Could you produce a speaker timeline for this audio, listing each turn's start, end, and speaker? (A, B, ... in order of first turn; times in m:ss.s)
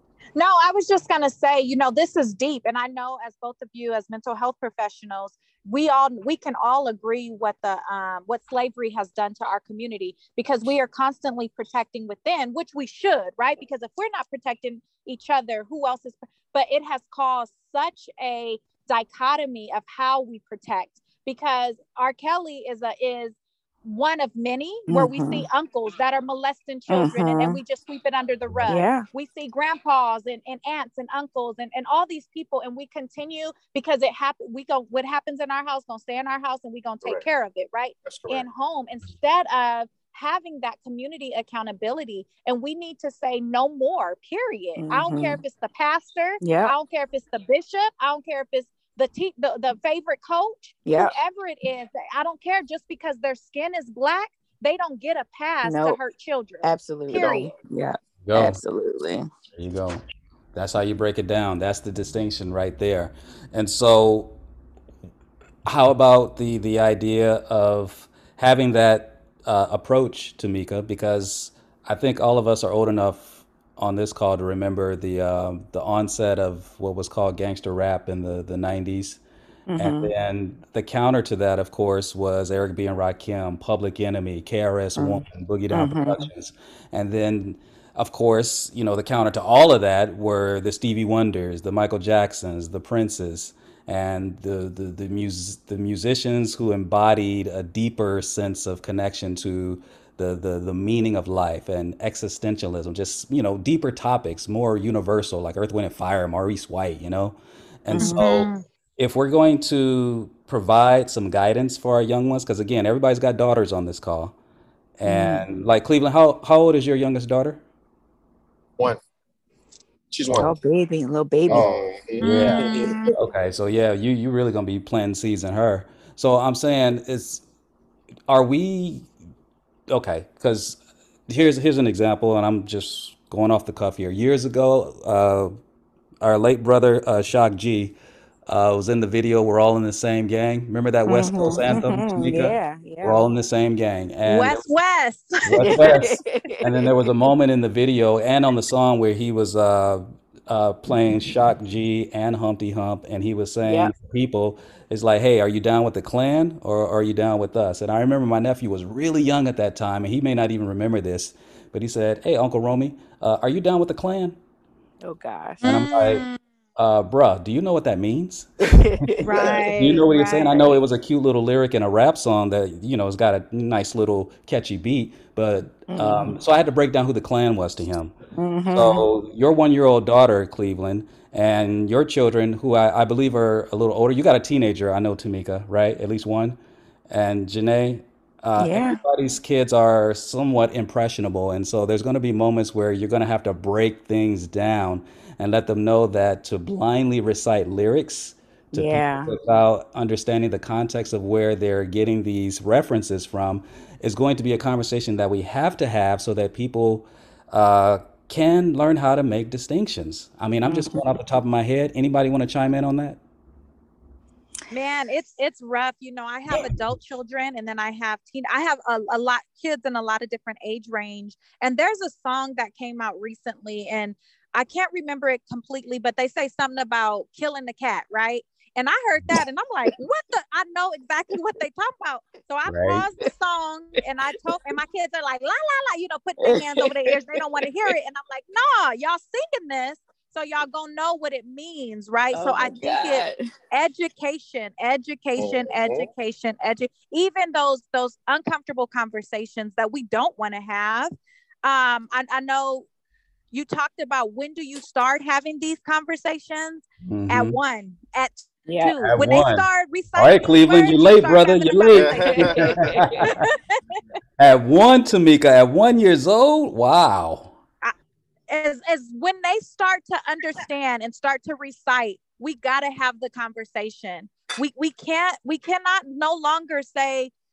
0:00.3-0:57.5 A
0:24.9-0:25.5 B
0:26.9-0:27.6 B
0:28.7-0:29.1 B
0:38.0-0:38.4 C
0:44.8-0:45.4 B
0:46.4-0:46.7 B
0:50.8-0:51.1 B
0:55.6-0:56.0 B
0:56.6-0:59.3 B
0:57.1-0:57.5 C
0:58.2-0:58.6 D
0:59.6-1:00.0 D
1:00.5-1:04.3 D
1:05.6-1:19.2 D
1:19.7-1:20.1 B
1:19.8-1:54.3 D
1:25.0-1:26.3 B
1:47.9-1:48.2 C
1:48.0-1:48.6 A
1:55.0-1:57.6 D
1:55.0-1:55.5 B
2:00.1-2:00.5 C
2:00.3-2:00.5 D
2:00.3-2:01.9 B
2:01.5-2:03.0 C
2:01.5-2:07.4 D
2:02.2-2:03.1 A
2:02.5-2:03.1 B
2:08.3-2:09.1 D
2:09.9-2:15.5 D
2:16.2-2:18.0 D
2:18.5-2:24.7 D
2:21.0-2:23.3 B
2:24.2-2:26.0 A
2:25.4-2:44.4 D
2:25.5-2:26.9 B
2:33.6-2:33.9 B
2:45.0-2:45.6 B
2:45.6-2:46.4 A
2:45.6-2:48.5 D
2:48.6-2:49.7 B
2:49.2-2:50.6 A
2:49.7-2:58.1 D
2:55.9-2:56.4 B
2:58.4-2:59.0 B
2:58.7-3:33.2 D
3:08.6-3:09.0 B
3:18.7-3:19.3 B
3:30.6-3:31.1 B
3:34.7-4:11.1 A
3:52.7-3:53.0 D
3:56.4-3:57.9 B
4:02.3-4:03.4 B
4:05.4-4:06.1 C
4:11.6-4:12.8 A
4:13.5-4:22.4 A
4:17.0-4:17.6 D
4:18.7-4:19.0 B
4:19.0-4:23.3 D
4:21.9-4:22.8 C
4:22.3-4:23.3 B
4:24.4-4:27.5 D
4:28.5-4:37.3 A